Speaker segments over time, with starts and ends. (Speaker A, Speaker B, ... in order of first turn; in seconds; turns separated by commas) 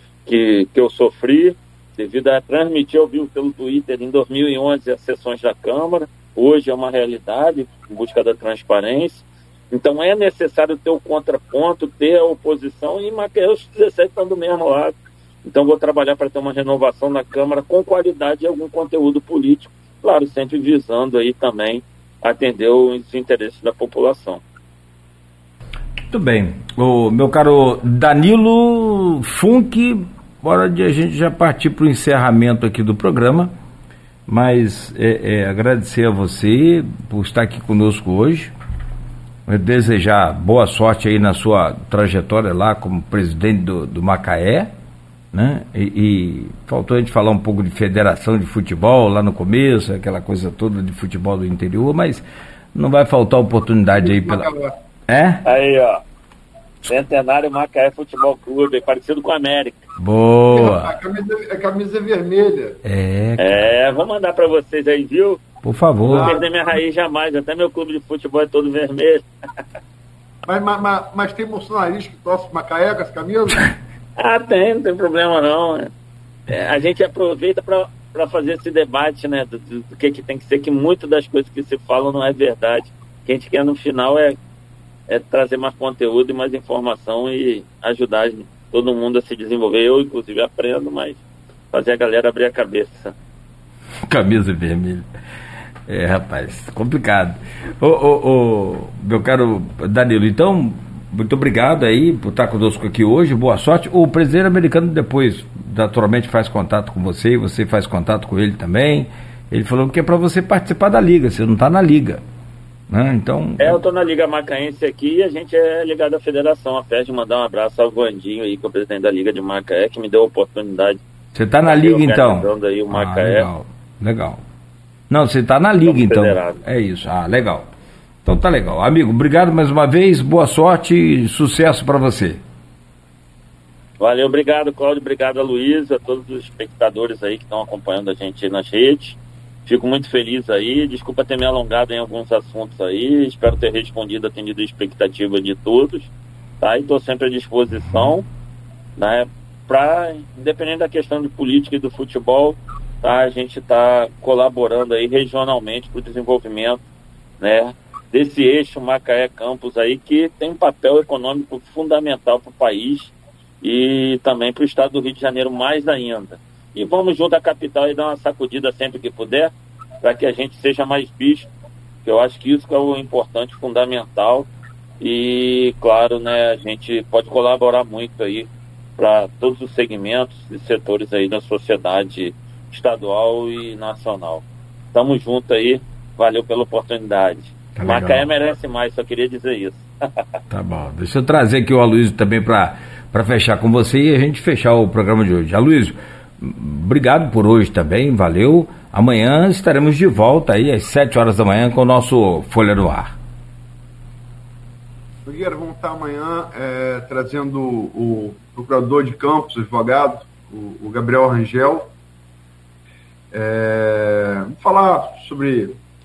Speaker A: 0.3-24.4, Speaker B: 26.1-33.5, Speaker B: 34.3-38.5, Speaker B: 39.5-44.7, Speaker B: 45.3-54.5, Speaker C: 54.0-54.7, Speaker B: 55.1-55.4, Speaker A: 55.4-56.0, Speaker A: 56.9-59.9, Speaker B: 60.0-60.9, Speaker C: 60.5-62.8, Speaker B: 62.8-63.6, Speaker A: 63.4-65.4, Speaker B: 65.6-66.3, Speaker C: 66.1-66.5, Speaker A: 66.1-69.2, Speaker C: 70.5-73.7, Speaker A: 74.2-75.9, Speaker A: 76.5-84.3, Speaker A: 85.1-93.2, Speaker B: 94.0-95.0, Speaker B: 95.9-112.2, Speaker B: 112.9-113.8, Speaker A: 113.6-121.0, Speaker B: 121.3-124.4, Speaker A: 121.7-123.5, Speaker B: 125.1-127.7, Speaker A: 125.8-126.6, Speaker B: 128.2-132.4, Speaker A: 134.0-148.3, Speaker A: 149.0-156.8, Speaker A: 157.4-171.5, Speaker A: 172.1-174.5, Speaker A: 175.0-190.2, Speaker B: 187.7-188.3, Speaker B: 190.5-203.2, Speaker C: 205.2-211.9, Speaker C: 213.3-215.8